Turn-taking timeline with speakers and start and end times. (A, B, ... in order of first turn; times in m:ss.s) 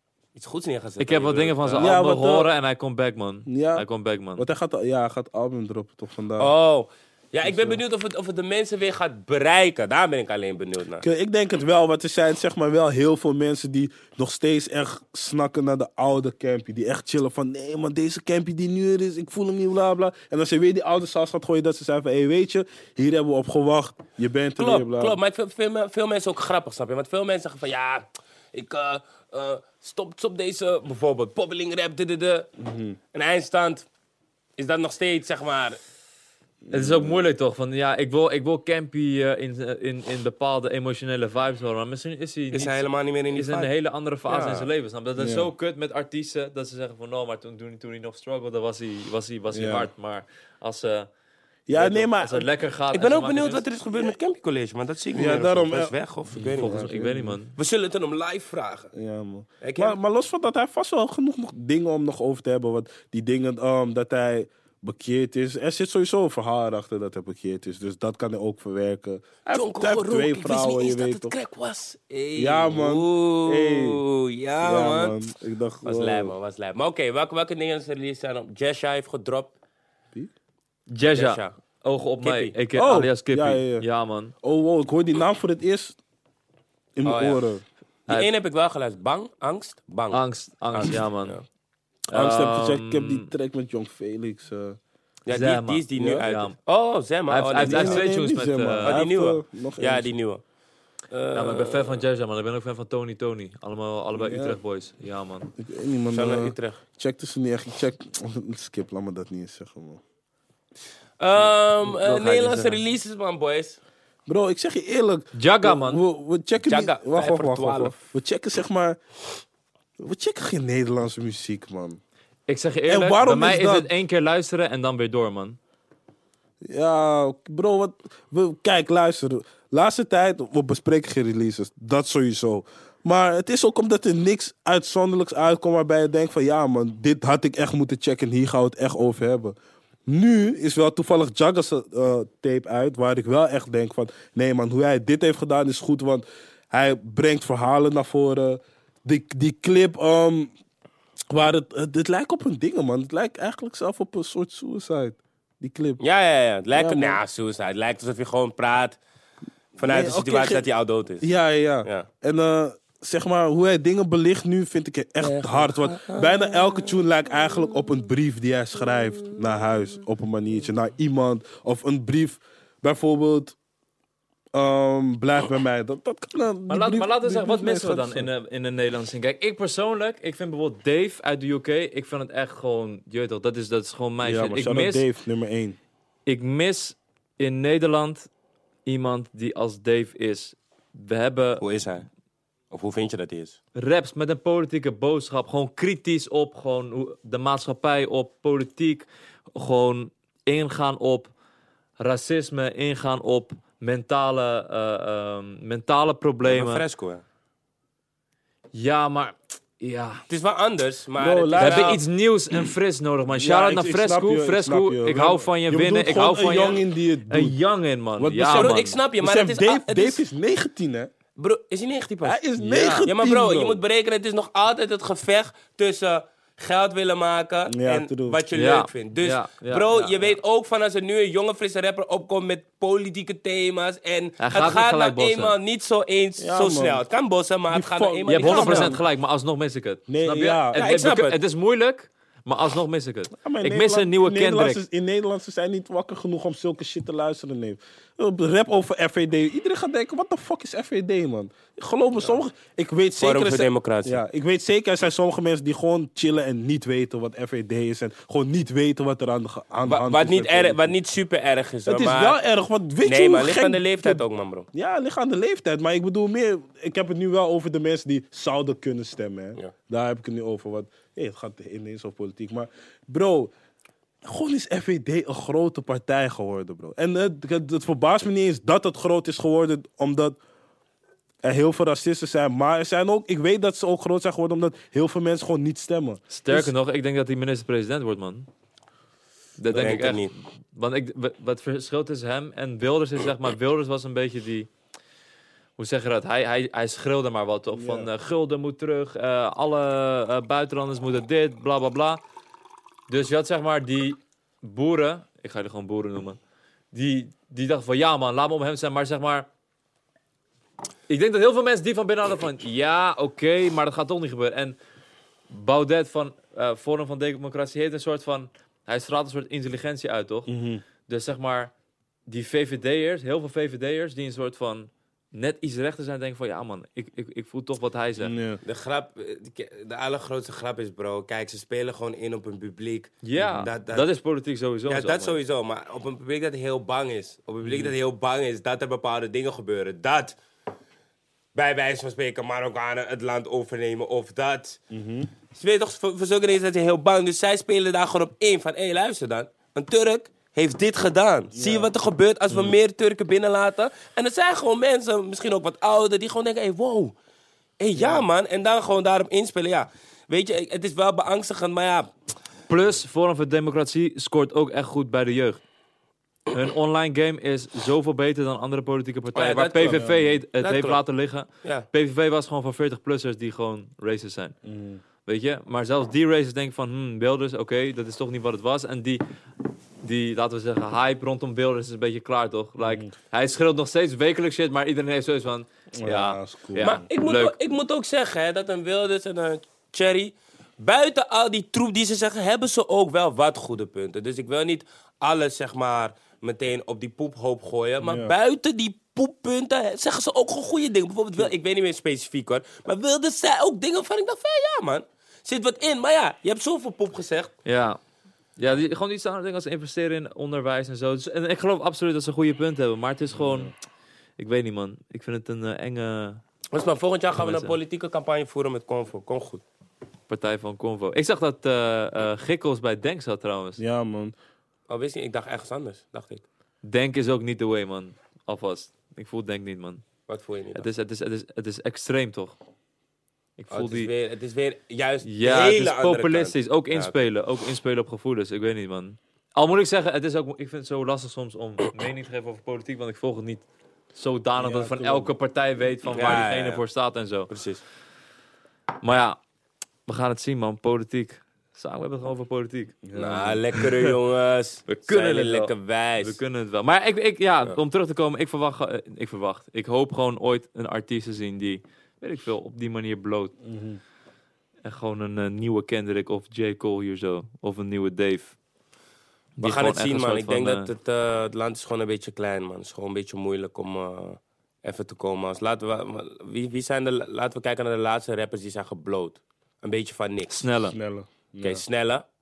0:00.3-0:02.0 A
0:01.0-0:04.4 B
0:01.7-0:02.5 C
0:03.5-0:06.5 C
0:06.4-0:11.0 A
0:07.4-0:07.8 C
0:11.0-0:25.2 C
0:24.6-0:32.5 A
0:32.6-0:33.0 C
0:33.1-0:33.8 A
0:34.6-0:35.8 A
0:36.6-0:37.3 C
0:36.7-0:51.1 B
0:42.5-0:43.7 A
0:44.3-0:44.7 A
0:45.2-0:45.5 C
0:49.5-0:49.9 C
0:51.7-0:52.5 C
0:51.7-0:53.6 B
0:52.9-0:56.9 A
0:55.1-0:57.4 C
0:56.4-0:57.5 B
0:57.5-0:58.9 A
0:58.9-1:11.3 C
0:59.6-1:00.0 A
1:09.4-1:15.1 A
1:12.4-1:14.0 C
1:14.6-1:16.3 C
1:15.8-1:19.5 A
1:20.9-1:24.3 B
1:21.1-1:21.5 A
1:22.2-1:22.5 A
1:22.7-1:23.8 C
1:24.4-1:26.0 C
1:27.0-1:27.6 C
1:27.0-1:27.4 A
1:28.1-1:30.2 A
1:30.1-1:31.4 B
1:30.7-1:31.4 A
1:32.1-1:33.3 B
1:32.1-1:34.8 C
1:35.2-1:38.1 A
1:35.3-1:36.6 B
1:36.0-1:36.2 C
1:37.3-1:39.0 B
1:37.6-1:40.1 C
1:38.8-1:40.4 A
1:41.1-1:42.0 A
1:41.3-1:45.5 B
1:44.1-1:44.6 C
1:45.6-1:50.0 C
1:46.1-1:46.8 A
1:51.2-1:53.8 A
1:51.8-1:52.8 C
1:54.3-1:59.0 C
1:55.3-1:56.0 B
1:56.6-1:58.0 A
2:00.0-2:02.0 C
2:02.5-2:05.6 B
2:02.9-2:03.9 C
2:06.6-2:19.5 C
2:20.0-2:30.5 C
2:31.3-2:36.0 C
2:36.0-2:39.0 A
2:36.7-2:37.2 C
2:39.8-2:41.3 A
2:39.8-2:40.6 C
2:41.2-2:53.6 C
2:45.2-2:47.0 A
2:54.5-2:58.3 C
2:56.7-3:05.0 B
3:04.2-3:05.8 C
3:06.2-3:08.3 B
3:08.8-3:11.6 B
3:11.6-3:12.1 A
3:12.7-3:13.6 A
3:13.7-3:21.3 B
3:22.0-3:26.8 B
3:26.4-3:27.2 A
3:28.7-3:30.2 B
3:30.3-3:32.0 A
3:31.2-3:32.0 C
3:31.6-3:39.0 B
3:33.3-3:37.6 C
3:38.2-3:41.1 C
3:38.5-3:40.2 A
3:41.4-3:42.4 A
3:42.2-3:43.8 C
3:42.6-3:43.1 B
3:43.0-3:59.0 A
3:47.7-3:48.4 C
3:48.5-3:50.4 B
3:54.4-3:55.5 B
3:56.4-3:57.0 C
3:57.7-3:59.0 C
3:58.3-4:04.8 B
4:00.1-4:00.9 C
4:00.7-4:01.4 A
4:03.4-4:20.9 C
4:13.2-4:14.2 A
4:19.8-4:22.4 A
4:21.8-4:24.2 C
4:23.0-4:24.7 A
4:24.7-4:33.5 C
4:34.2-4:40.4 C
4:41.4-4:46.7 C
4:46.3-4:48.5 B
4:49.6-4:54.7 B
4:49.7-4:50.3 A
4:55.8-5:02.2 B
4:57.7-4:58.1 C
5:03.1-5:06.4 B
5:06.9-5:09.5 B
5:11.1-5:14.8 B
5:15.5-5:20.5 B
5:20.5-5:20.8 C
5:21.1-5:21.7 B
5:22.3-5:28.3 B
5:28.2-5:28.6 C
5:28.6-5:34.1 A
5:33.2-5:35.3 B
5:34.9-5:40.4 A
5:37.6-5:37.9 C
5:41.5-5:44.8 A
5:44.9-5:45.3 C
5:45.5-5:57.1 A
5:51.5-5:51.9 C
5:57.8-6:02.1 A
6:02.7-6:05.6 B
6:06.5-6:14.6 B
6:09.3-6:10.1 A
6:09.8-6:10.4 C
6:10.6-6:11.0 A
6:14.6-6:15.0 C
6:15.2-6:19.2 B
6:20.0-6:27.6 B
6:22.8-6:23.1 C
6:26.0-6:27.0 C
6:26.8-6:47.5 A
6:38.0-6:38.3 C
6:47.6-6:48.0 B
6:48.6-6:53.7 B
6:53.3-6:53.7 C
6:54.4-6:56.4 B
6:56.7-6:59.6 A
6:57.3-6:57.7 B
7:00.3-7:03.8 B
7:03.8-7:04.3 C
7:04.9-7:06.4 A
7:06.8-7:10.0 B
7:10.3-7:10.9 A
7:10.7-7:12.6 B
7:13.6-7:14.1 B
7:13.7-7:17.1 A
7:15.2-7:27.5 B
7:24.6-7:25.3 C
7:26.1-7:26.8 A
7:27.5-7:27.8 A
7:29.0-7:29.4 B
7:30.1-7:33.0 B
7:33.0-7:34.1 C
7:33.1-7:36.4 A
7:34.9-7:43.5 B
7:43.6-7:44.0 C
7:44.8-7:48.5 B
7:49.6-7:50.9 B
7:49.6-8:00.6 A
8:00.5-8:01.0 B
8:00.9-8:01.8 C
8:01.6-8:02.2 A